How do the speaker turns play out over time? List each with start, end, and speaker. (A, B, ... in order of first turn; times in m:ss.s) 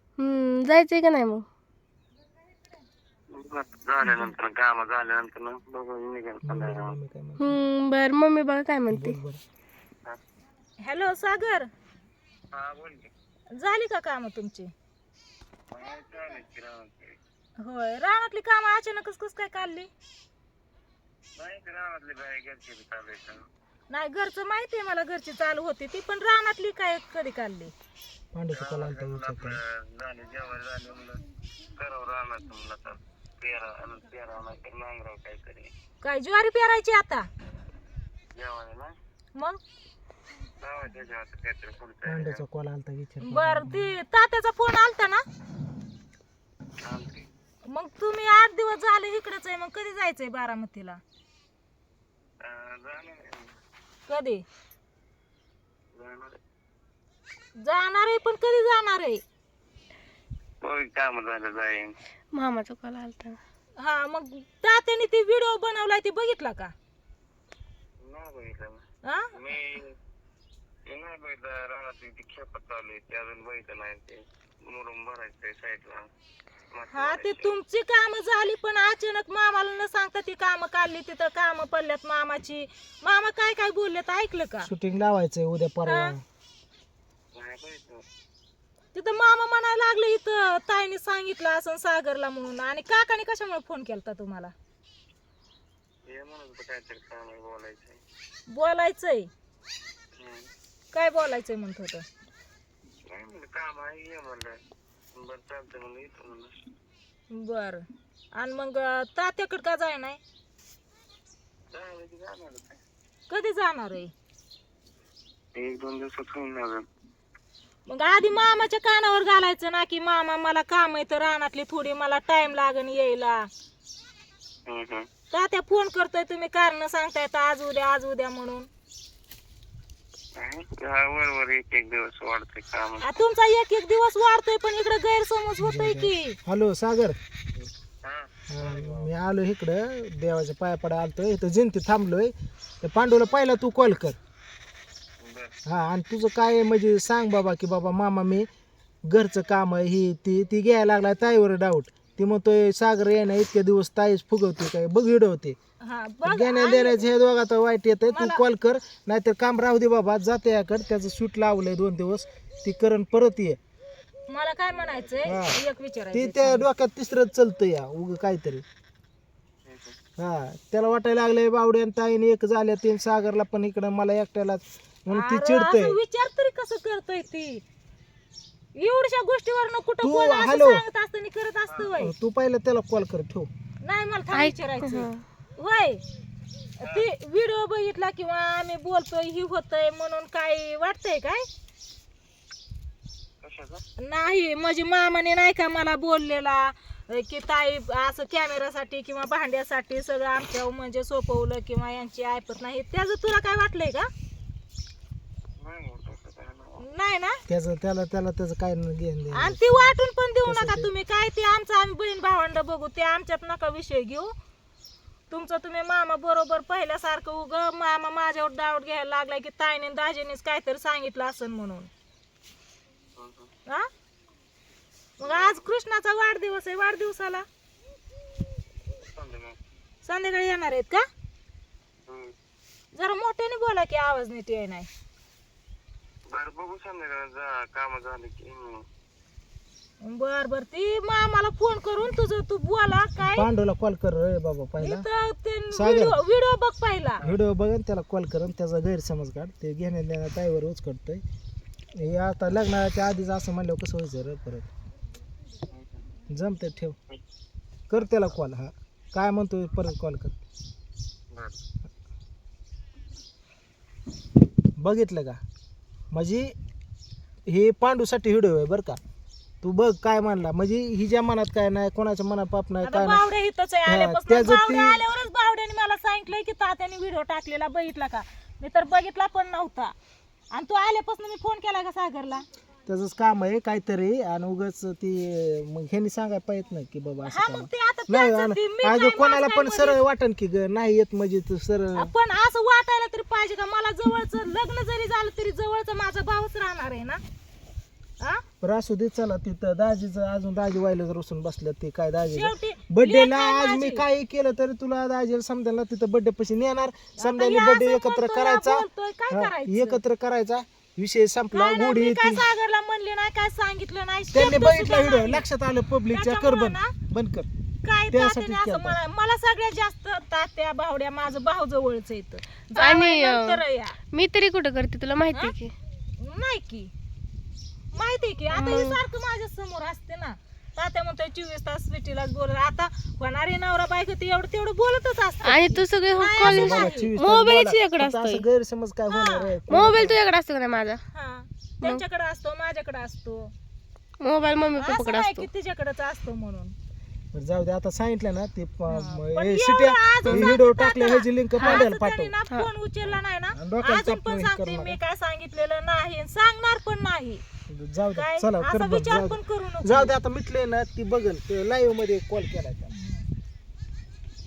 0:00.2-0:01.4 A
0:03.3-0:07.0 B
0:06.4-0:07.5 C
0:07.4-0:09.2 A
0:08.9-0:09.4 C
0:10.8-0:11.7 D
0:12.5-0:13.1 B
0:13.6-0:14.7 D
0:15.7-0:17.2 B
0:17.6-0:19.9 D
0:21.4-0:23.4 B
0:23.9-0:27.7 D
0:28.3-0:29.6 C
0:28.5-0:31.2 B
0:31.8-0:35.7 B
0:36.0-0:37.3 D
0:38.3-0:38.9 B
0:40.6-0:42.4 B
0:42.0-0:43.9 C
0:43.2-0:45.2 D
0:46.8-0:47.3 B
0:47.7-0:51.0 D
0:52.4-0:53.5 B
0:54.1-0:54.4 D
0:55.9-0:56.4 B
0:57.6-0:59.2 D
1:00.6-1:02.0 B
1:02.3-1:03.4 A
1:03.8-1:06.7 D
1:08.0-1:08.8 B
1:09.0-1:09.3 D
1:09.3-1:09.9 B
1:10.8-1:16.1 B
1:16.7-1:17.6 B
1:16.9-1:24.7 D
1:24.6-1:26.2 C
1:25.8-1:26.1 D
1:27.3-1:28.0 B
1:28.9-1:34.5 D
1:36.0-1:38.0 B
1:38.5-1:39.3 D
1:40.2-1:40.5 B
1:40.9-1:42.0 D
1:43.0-1:44.6 B
1:45.1-1:46.6 B
1:47.3-1:47.8 D
1:48.4-1:50.2 D
1:51.7-1:52.8 B
1:53.3-1:54.1 D
1:55.5-1:56.8 B
1:57.9-2:03.5 D
2:04.7-2:05.1 B
2:05.3-2:08.7 D
2:10.4-2:13.0 B
2:13.0-2:16.4 D
2:15.6-2:17.2 C
2:17.6-2:19.1 B
2:18.5-2:24.2 C
2:25.2-2:25.6 B
2:25.6-2:28.5 C
2:29.1-2:35.6 C
2:35.8-2:37.0 D
2:36.2-2:43.6 C
2:38.1-2:38.4 D
2:44.3-2:46.7 D
2:45.2-2:45.6 C
2:46.1-2:48.6 C
2:49.6-2:50.0 B
2:50.2-2:56.0 C
2:55.1-2:57.6 D
2:58.8-3:02.1 D
3:00.0-3:00.8 C
3:01.9-3:03.5 C
3:03.8-3:06.0 D
3:04.3-3:05.2 A
3:06.8-3:11.4 D
3:13.4-3:13.8 B
3:14.0-3:24.1 D
3:25.6-3:26.8 B
3:26.8-3:27.4 D
3:27.5-3:29.9 C
3:29.3-3:34.3 D
3:30.4-3:30.9 C
3:35.3-3:41.9 D
3:43.2-3:43.5 B
3:45.2-3:47.4 D
3:45.2-3:45.6 B
3:48.9-3:49.6 B
3:50.0-3:51.0 D
3:52.1-3:52.3 B
3:52.9-3:54.9 D
3:56.3-3:58.8 B
4:00.0-4:03.4 D
4:03.2-4:05.0 C
4:04.8-4:07.2 D
4:05.7-4:06.2 C
4:07.2-4:11.2 C
4:12.0-4:14.7 C
4:15.7-4:16.0 B
4:16.3-4:17.0 C
4:17.9-4:20.3 C
4:18.0-4:18.3 B
4:21.3-4:21.6 B
4:24.8-4:25.4 C
4:26.1-4:26.5 C
4:27.5-4:29.0 C
4:29.6-4:33.2 C
4:32.8-4:39.9 D
4:33.8-4:35.0 C
4:40.5-4:42.4 D
4:42.9-4:52.1 C
4:47.2-4:50.0 D
4:52.0-4:57.2 D
4:58.6-5:12.4 C
5:02.2-5:04.0 D
5:07.2-5:10.0 D
5:11.5-5:15.4 D
5:14.3-5:17.5 C
5:16.1-5:16.9 D
5:17.8-5:24.0 D
5:18.1-5:19.0 C
5:22.7-5:25.7 A
5:26.2-5:26.9 D
5:27.9-5:37.1 D
5:28.5-5:29.0 A
5:35.4-5:38.4 A
5:36.4-5:40.2 C
5:39.1-5:39.5 D
5:39.7-5:41.0 A
5:41.1-5:43.5 D
5:44.2-5:45.5 A
5:44.8-5:46.7 D
5:47.3-5:52.3 C
5:48.9-5:57.4 D
5:51.6-5:51.9 A
5:53.0-5:55.0 C
5:57.7-6:02.9 C
5:58.1-6:00.1 D
6:02.9-6:03.3 D